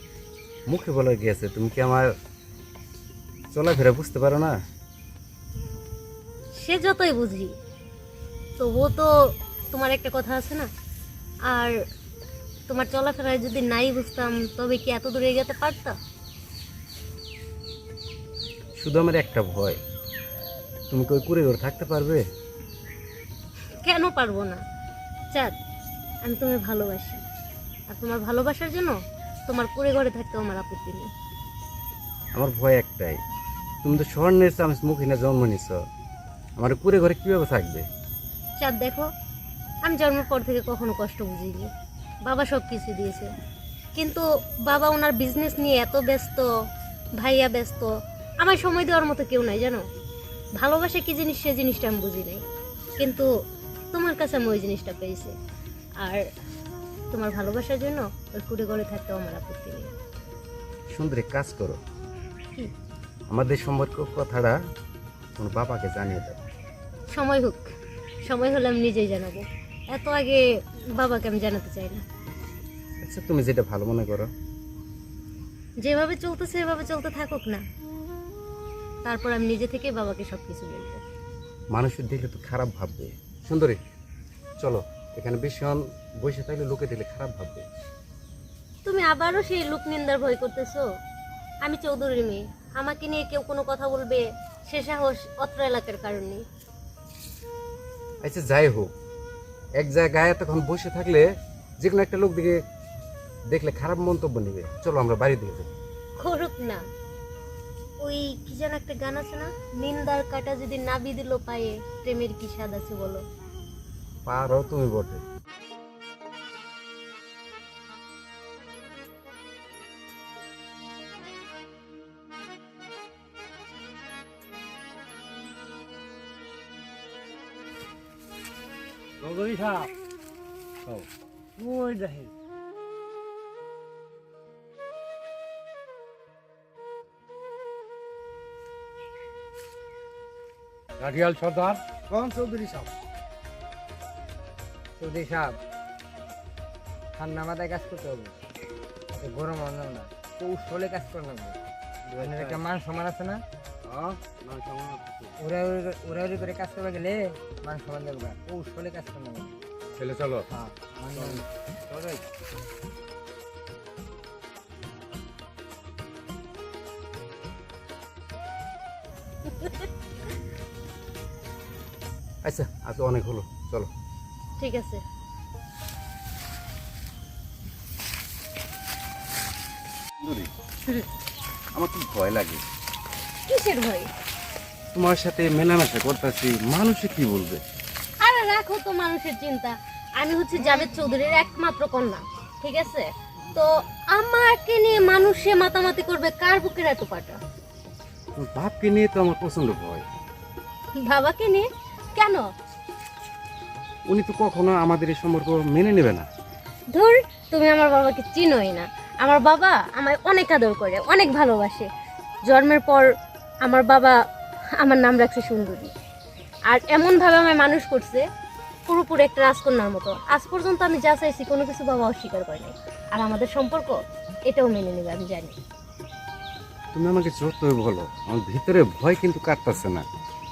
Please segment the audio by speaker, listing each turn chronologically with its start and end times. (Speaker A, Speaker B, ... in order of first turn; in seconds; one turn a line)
Speaker A: 0.7-2.1
Speaker A: 3.5-4.6
Speaker B: 6.5-7.5
Speaker B: 8.6-9.1
Speaker B: 9.7-10.7
Speaker B: 11.5-11.8
Speaker B: 12.7-15.9
Speaker A: 18.8-19.8
Speaker A: 20.9-22.2
Speaker B: 23.8-24.6
Speaker B: 25.3-25.6
Speaker B: 26.2-27.2
Speaker B: 27.9-31.1
Speaker A: 32.3-33.2
Speaker A: 33.8-35.8
Speaker A: 36.6-37.9
Speaker B: 38.6-39.1
Speaker B: 39.8-41.7
Speaker B: 42.2-43.3
Speaker B: 43.9-46.5
Speaker B: 47.2-49.9
Speaker B: 50.6-52.4
Speaker B: 53.0-53.3
Speaker B: 53.9-55.3
Speaker B: 56.0-56.2
Speaker B: 57.1-59.9
Speaker A: 60.9-61.8
Speaker A: 63.3-64.6
Speaker A: 65.3-66.4
Speaker B: 67.1-67.7
Speaker B: 68.2-70.4
Speaker B: 70.9-72.0
Speaker A: 73.0-74.3
Speaker B: 75.8-77.6
Speaker B: 79.0-81.0
Speaker A: 81.7-83.8
Speaker A: 84.6-87.7
Speaker B: 88.8-90.8
Speaker B: 91.6-96.4
Speaker A: 98.2-98.9
Speaker A: 99.8-102.6
Speaker A: 103.5-105.7
Speaker B: 106.2-106.8
Speaker B: 108.0-113.2
Speaker A: 114.2-115.2
Speaker C: 129.2-129.9
Speaker C: 131.6-132.3
Speaker D: 141.0-141.8
Speaker C: 142.1-142.9
Speaker E: 145.0-145.6
Speaker E: 147.2-148.3
Speaker E: 149.1-151.6
Speaker E: 152.1-153.4
Speaker D: 152.2-152.5
Speaker D: 154.2-155.2
Speaker E: 155.4-159.5
Speaker D: 160.0-160.5
Speaker E: 160.5-161.4
Speaker B: 169.6-169.8
Speaker A: 172.4-173.9
Speaker B: 174.6-175.0
Speaker A: 180.2-180.5
Speaker A: 181.7-182.7
Speaker B: 183.5-184.1
Speaker A: 184.9-187.6
Speaker B: 188.2-197.4
Speaker A: 198.3-200.0
Speaker B: 201.0-202.5
Speaker A: 204.1-206.3
Speaker B: 206.9-211.9
Speaker B: 212.5-213.1
Speaker B: 213.6-214.2
Speaker B: 214.8-215.9
Speaker B: 216.7-218.2
Speaker B: 218.9-223.9
Speaker B: 224.5-225.6
Speaker A: 226.9-230.1